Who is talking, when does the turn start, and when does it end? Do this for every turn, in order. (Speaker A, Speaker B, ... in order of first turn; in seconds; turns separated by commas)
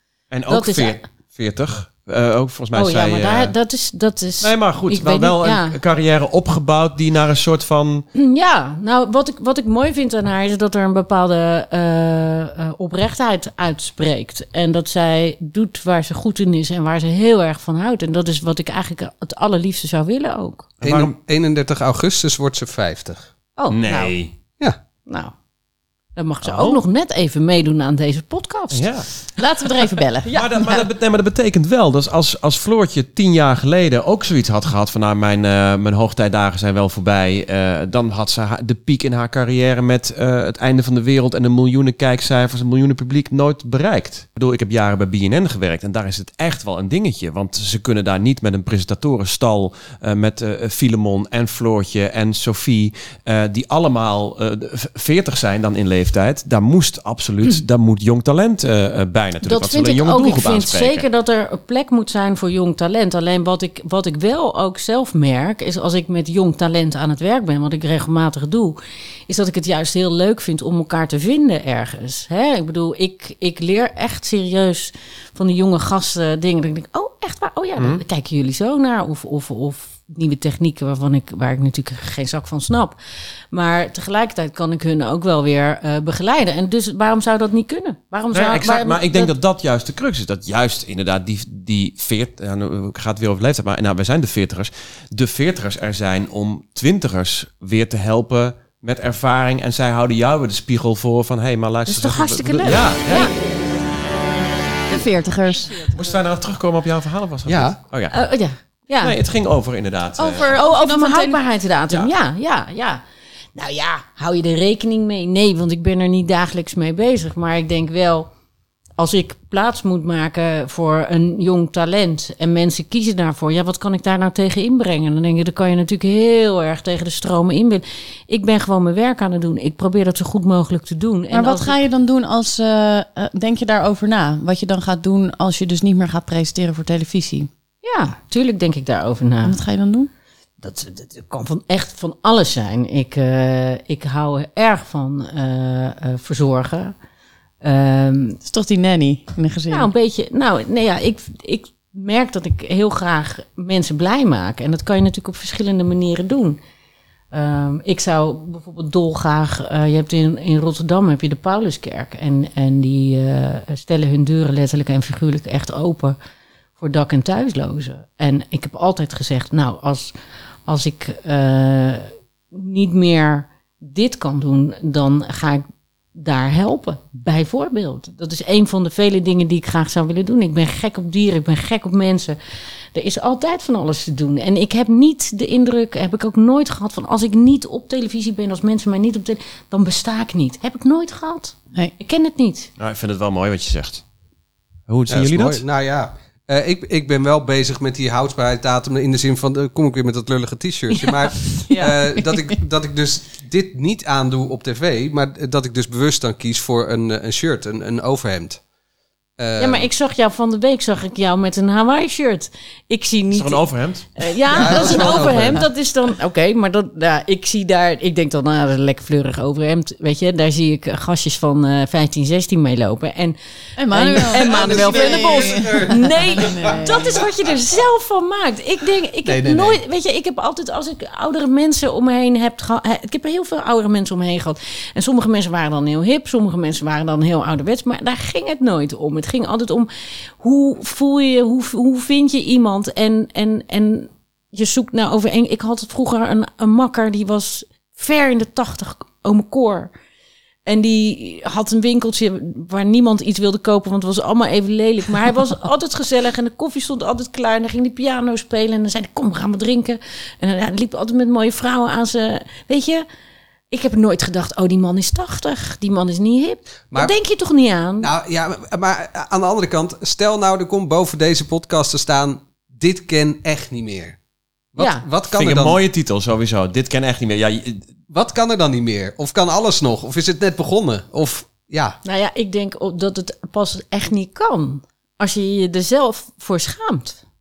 Speaker A: 0.3-3.5, Speaker B: 0.5-1.0, Speaker B: 2.7-5.8, Speaker A: 4.4-8.1, Speaker B: 8.1-20.7, Speaker A: 20.8-21.1, Speaker C: 20.8-23.3, Speaker B: 23.6-24.2, Speaker A: 23.7-24.3, Speaker B: 25.1-25.3, Speaker B: 26.2-28.9, Speaker A: 26.4-26.8, Speaker A: 28.7-29.1, Speaker D: 29.4-30.3, Speaker B: 30.2-30.8, Speaker A: 30.3-61.1, Speaker B: 59.4-68.8, Speaker B: 69.3-83.0, Speaker A: 77.8-78.0, Speaker B: 83.5-89.3, Speaker A: 88.3-103.3, Speaker B: 101.9-103.3, Speaker D: 104.9-105.9, Speaker A: 105.8-108.2, Speaker C: 107.5-107.8, Speaker B: 108.1-109.2, Speaker A: 109.0-110.5, Speaker D: 110.2-111.4, Speaker B: 110.5-113.0, Speaker B: 113.5-118.3, Speaker B: 119.0-131.8, Speaker D: 131.3-137.5, Speaker B: 137.8-139.6, Speaker D: 139.4-140.1, Speaker B: 140.6-146.9, Speaker B: 147.6-148.4, Speaker D: 148.4-149.9, Speaker B: 149.7-156.6, Speaker B: 157.3-166.2, Speaker B: 166.8-170.1, Speaker B: 170.7-175.6, Speaker B: 176.1-182.4, Speaker B: 182.9-192.7, Speaker A: 192.8-194.0, Speaker A: 194.9-195.6, Speaker C: 195.1-208.6, Speaker B: 200.9-202.0, Speaker C: 209.4-209.9, Speaker B: 209.6-223.4, Speaker A: 213.3-214.1, Speaker C: 214.5-215.6, Speaker A: 214.6-215.6, Speaker D: 223.8-227.2, Speaker B: 223.9-249.9, Speaker C: 224.3-227.2, Speaker C: 229.2-229.8, Speaker B: 250.7-263.0, Speaker B: 263.7-268.1, Speaker C: 268.0-274.2, Speaker C: 274.8-275.8, Speaker B: 274.8-275.1, Speaker A: 275.3-277.9, Speaker C: 278.1-282.0, Speaker B: 282.0-287.2